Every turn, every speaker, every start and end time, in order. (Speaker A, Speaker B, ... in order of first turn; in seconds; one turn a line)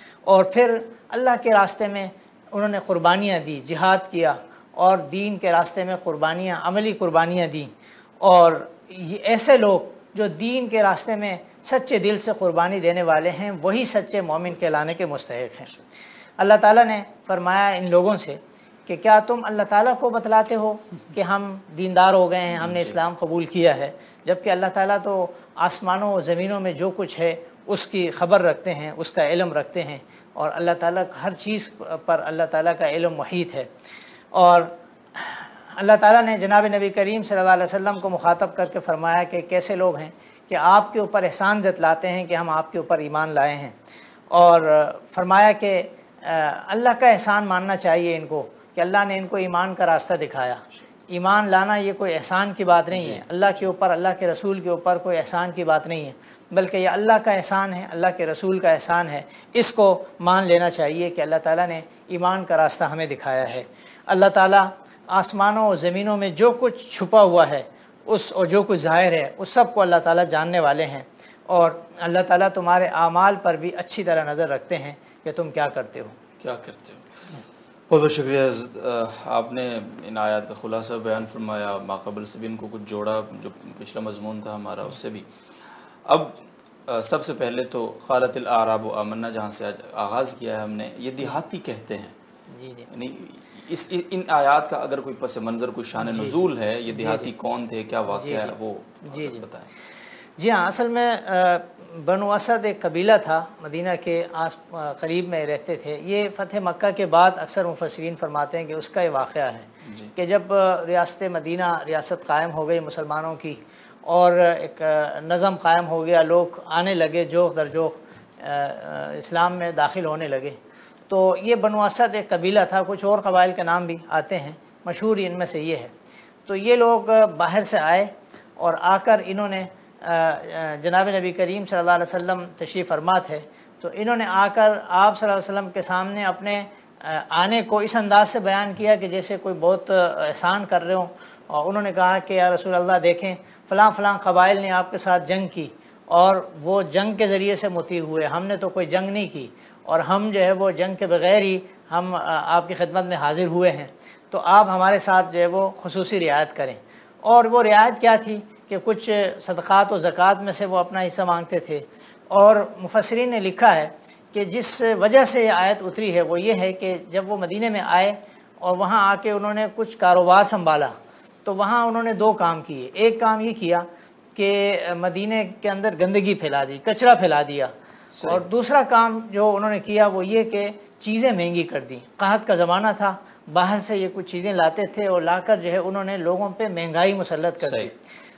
Speaker A: 0.2-15.7
Speaker A: 16.4-33.7
Speaker B: 22.6-22.9
Speaker A: 34.3-43.8
Speaker A: 44.3-76.2
Speaker B: 52.9-53.2
Speaker B: 76.4-77.1
Speaker B: 77.9-85.3
Speaker B: 86.0-92.1
Speaker A: 92.5-92.9
Speaker B: 92.9-99.7
Speaker A: 96.0-97.3
Speaker A: 98.1-98.5
Speaker A: 99.1-99.4
Speaker A: 100.4-120.6
Speaker B: 109.8-110.1
Speaker A: 121.1-125.9
Speaker A: 126.5-170.9
Speaker A: 171.4-188.0
Speaker B: 178.1-178.4
Speaker B: 187.6-187.9